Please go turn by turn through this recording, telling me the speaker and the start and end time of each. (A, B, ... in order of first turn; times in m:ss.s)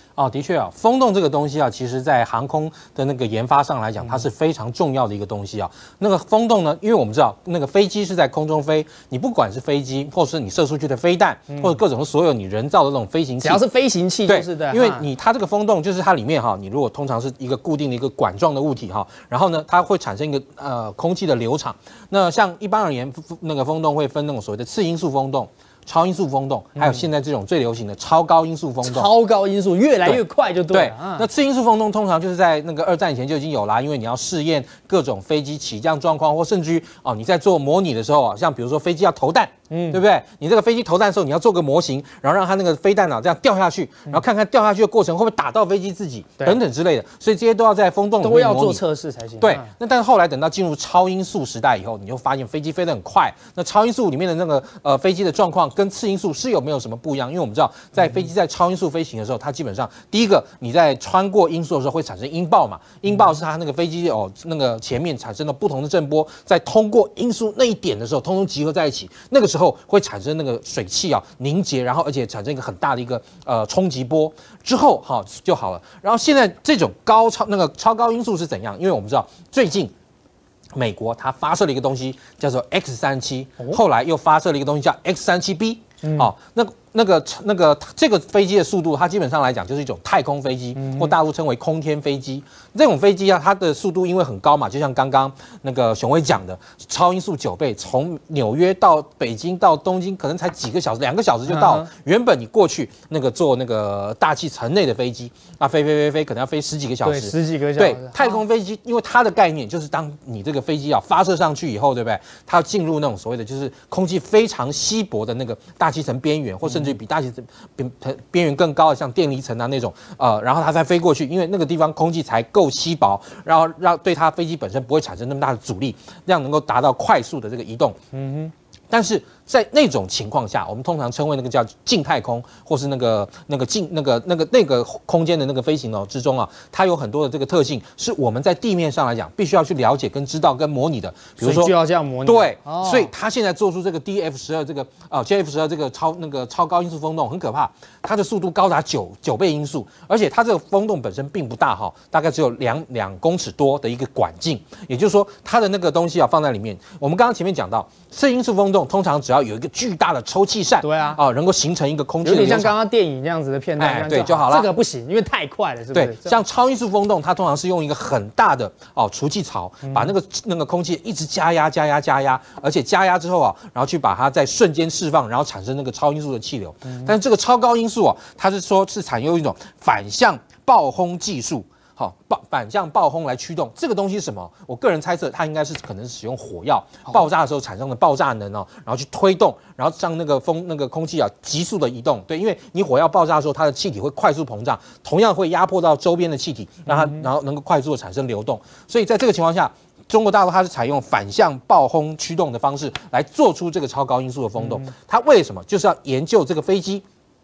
0:00.2-0:13.6 A
0:13.4-0:15.1 B
0:14.3-0:29.1 A
0:26.8-0:27.0 B
0:28.8-0:31.3 B
0:30.0-0:48.8 A
0:39.7-0:40.0 B
0:48.2-0:49.7 B
0:49.4-1:19.9 A
1:20.8-2:08.0 A
1:26.0-1:26.3 B
1:30.8-1:31.1 B
1:41.5-1:41.9 B
1:47.0-1:48.4 B
1:56.6-1:57.0 B
2:08.1-2:08.5 B
2:08.9-2:21.7 A
2:21.4-2:23.1 B
2:22.3-2:42.8 A
2:40.8-2:41.2 B
2:42.2-2:46.4 B
2:43.8-2:44.7 A
2:45.9-3:27.0 A
2:49.8-2:50.1 B
3:16.9-3:17.3 B
3:24.6-3:24.9 B